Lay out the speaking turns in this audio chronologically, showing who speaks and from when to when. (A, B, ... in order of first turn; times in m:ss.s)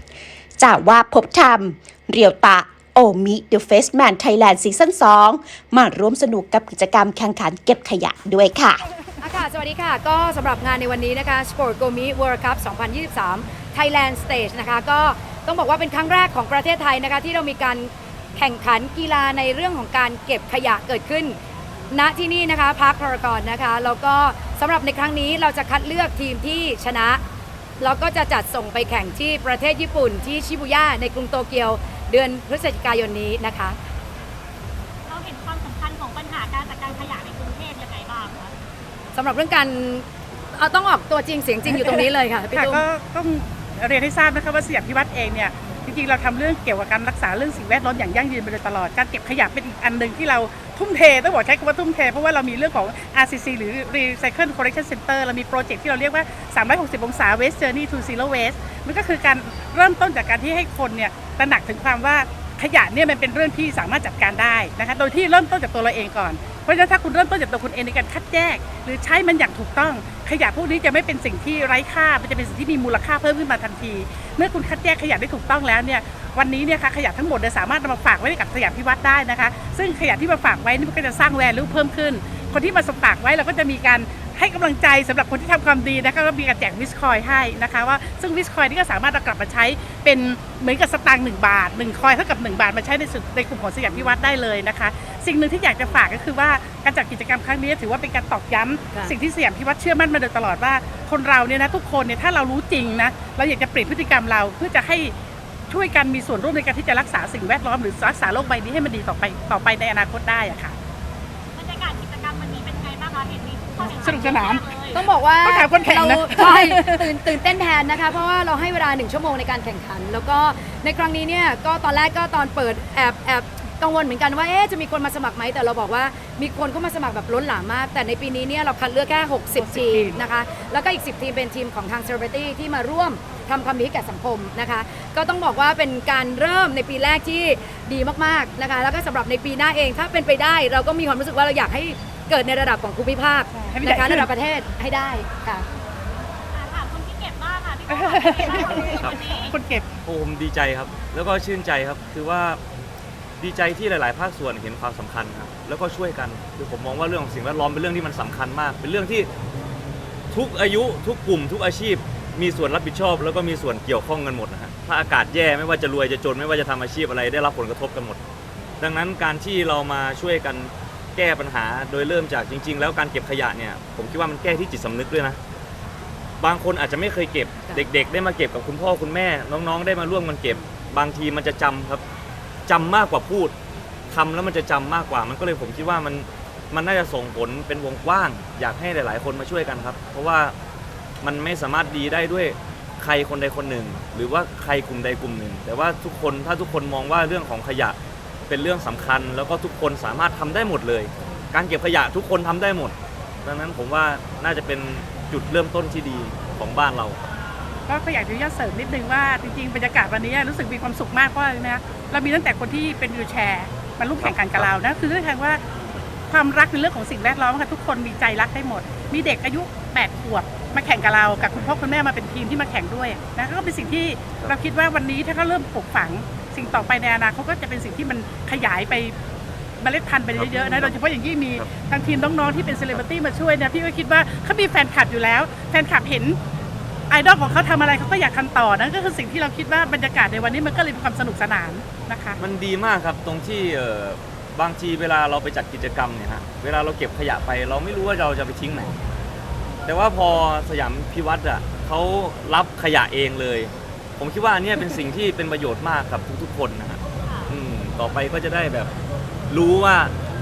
0:00.6-0:08.8 A
0:09.2-0:21.4 B
0:21.9-0:27.2 B
0:27.8-0:33.8 B
0:35.1-0:38.5 C
0:39.1-0:42.8 B
0:41.7-1:45.1 D
1:45.7-1:50.8 D
1:51.5-1:55.0 C
1:53.8-1:57.0 D
1:55.0-2:25.7 B
2:09.5-2:10.2 D
2:23.5-2:24.3 D
2:26.5-2:29.6 C
2:27.9-2:29.9 D
2:30.1-2:32.6 E
2:33.4-2:39.3 E
2:40.3-2:48.2 E
2:48.8-2:55.4 E
2:56.4-3:02.0 E
3:02.7-3:03.6 E
3:04.1-3:10.6 E
3:11.2-3:18.0 E
3:18.5-3:27.2 E
3:27.9-3:35.6 D
3:34.2-3:34.7 E
3:36.3-3:49.2 D
3:49.8-3:56.4 D
3:50.4-3:51.0 E
3:57.1-4:02.4 D
4:02.4-4:09.0 E
4:09.9-4:18.9 E
4:17.2-4:17.5 C
4:19.5-4:20.1 E